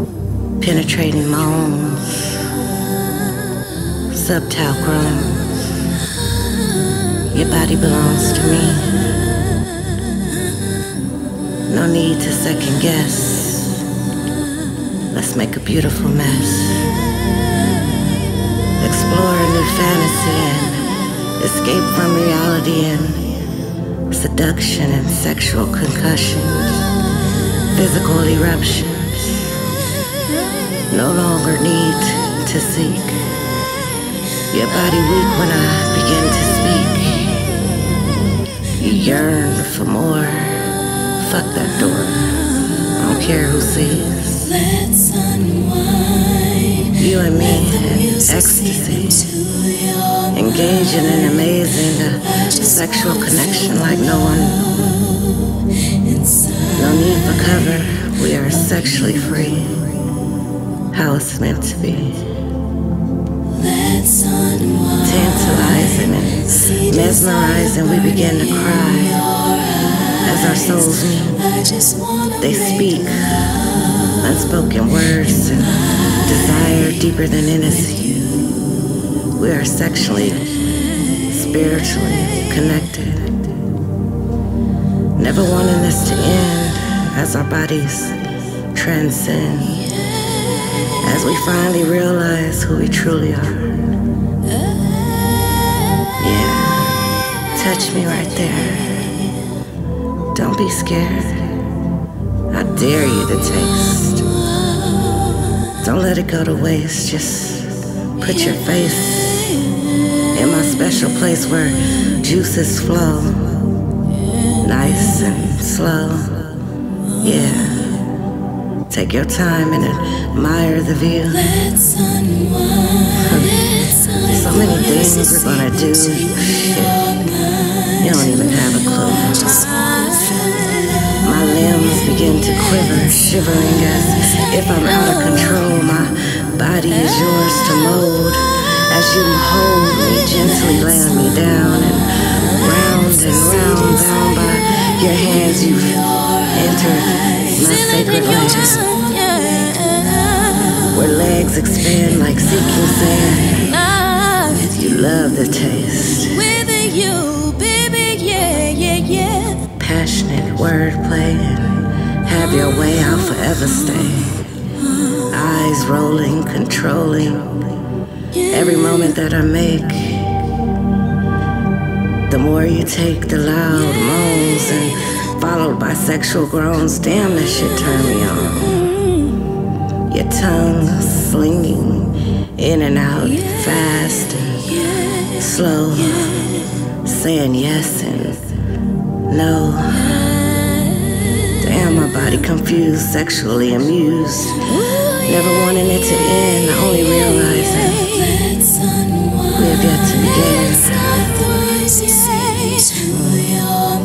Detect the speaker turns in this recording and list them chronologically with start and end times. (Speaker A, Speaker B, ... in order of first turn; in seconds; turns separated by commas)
Speaker A: 0.6-2.5, Speaker A: 4.1-5.8, Speaker A: 7.3-9.1, Speaker A: 11.7-13.9, Speaker A: 15.1-17.0, Speaker A: 18.8-23.4, Speaker A: 24.1-26.9, Speaker A: 27.7-29.6, Speaker A: 30.9-33.3, Speaker A: 34.5-37.5, Speaker A: 38.7-42.4, Speaker A: 43.0-44.7, Speaker B: 45.2-46.6, Speaker A: 46.9-49.5, Speaker A: 50.3-55.1, Speaker A: 56.6-59.9, Speaker A: 60.9-62.3, Speaker B: 64.0-64.6, Speaker A: 64.9-69.3, Speaker A: 70.1-71.6, Speaker A: 72.3-73.5, Speaker A: 74.2-78.4, Speaker A: 79.4-80.6, Speaker A: 81.2-83.4, Speaker A: 85.2-90.0, Speaker A: 91.0-93.9, Speaker A: 96.1-99.2, Speaker A: 100.3-101.6, Speaker A: 102.5-104.3, Speaker A: 105.8-109.7, Speaker A: 110.3-113.7, Speaker A: 114.6-116.5, Speaker A: 117.2-118.0, Speaker A: 118.9-121.8, Speaker B: 122.2-122.6, Speaker A: 123.1-127.3, Speaker A: 127.9-129.9, Speaker A: 131.1-149.2, Speaker B: 149.3-150.3, Speaker A: 150.7-156.9, Speaker B: 156.9-159.4, Speaker A: 159.5-164.5, Speaker A: 165.3-167.7, Speaker A: 168.5-170.4, Speaker A: 172.3-179.2, Speaker A: 180.1-188.5, Speaker A: 189.3-190.5, Speaker A: 191.5-198.6, Speaker A: 199.3-203.6